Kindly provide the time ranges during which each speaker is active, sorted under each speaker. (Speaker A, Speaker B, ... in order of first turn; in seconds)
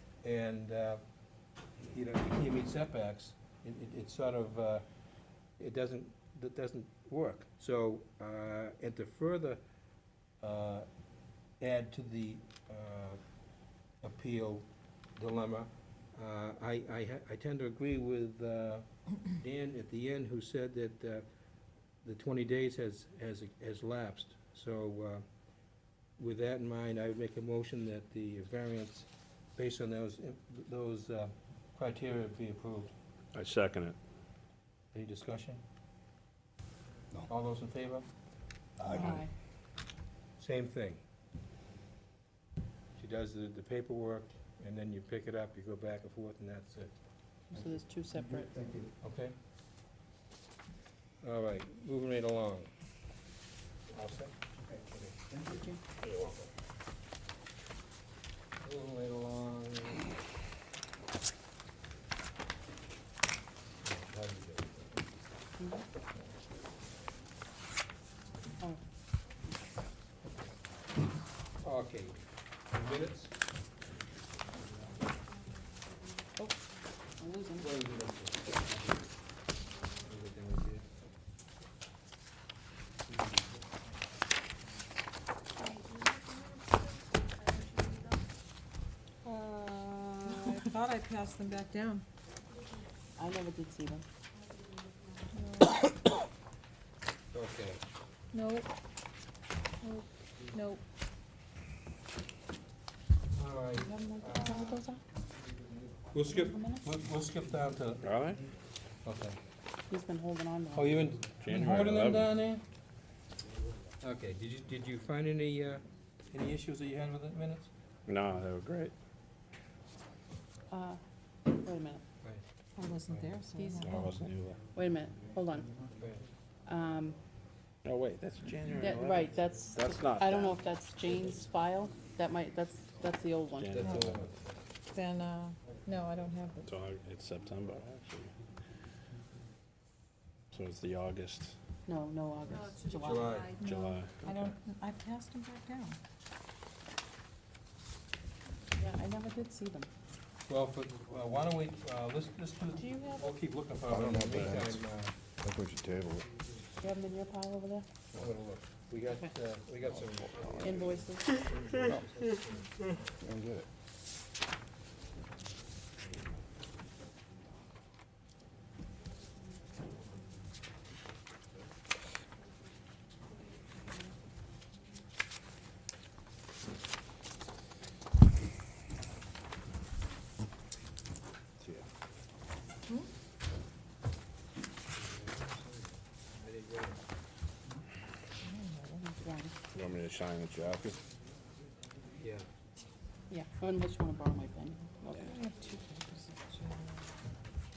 Speaker A: 0.2-1.0, 1.9-4.8, 5.6-9.6, 10.4-10.9, 11.6-13.2, 14.0-21.2, 22.0-25.2, 26.2-32.9, 34.9-35.6, 37.3-38.1, 40.4-41.0, 43.0-46.9, 49.0-49.4, 51.2-52.7, 53.9-55.2, 56.1-56.5, 58.6-60.1, 63.8-65.0, 71.6-73.3, 77.5-79.0, 80.0-80.8, 97.3-97.8, 103.3-104.8, 106.1-108.0, 109.0-109.4, 110.7-112.6, 114.0-117.7, 123.1-123.4, 126.0-126.2, 133.7-134.5, 143.0-143.5, 150.5-155.2, 158.1-162.7, 185.0-185.6, 186.3-187.0, 192.2-192.5
Speaker B: 33.3-34.0, 108.0-108.4, 111.4-112.3, 118.1-118.9, 123.8-124.6, 127.8-130.7, 133.6-134.3, 136.6-138.3, 140.5-141.6, 143.6-144.6, 189.7-191.0
Speaker C: 38.8-39.2, 153.9-154.8, 155.4-156.3, 163.2-163.7
Speaker D: 38.9-39.3, 47.5-48.6, 55.5-55.8, 65.6-65.8, 77.2-77.7, 93.2-94.0, 103.8-105.0, 106.3-106.9, 109.9-111.0, 120.7-121.0, 121.6-122.0, 123.5-124.1, 124.7-125.8, 126.7-127.2, 128.8-133.8, 141.8-143.4, 148.8-149.9, 152.9-153.2, 156.8-157.9, 160.6-161.4, 189.0-189.5, 193.3-195.4
Speaker E: 89.2-92.0, 95.3-95.8, 98.3-98.7, 99.8-100.8, 122.8-124.1, 134.9-136.7, 143.6-146.0, 188.4-189.0, 195.2-197.0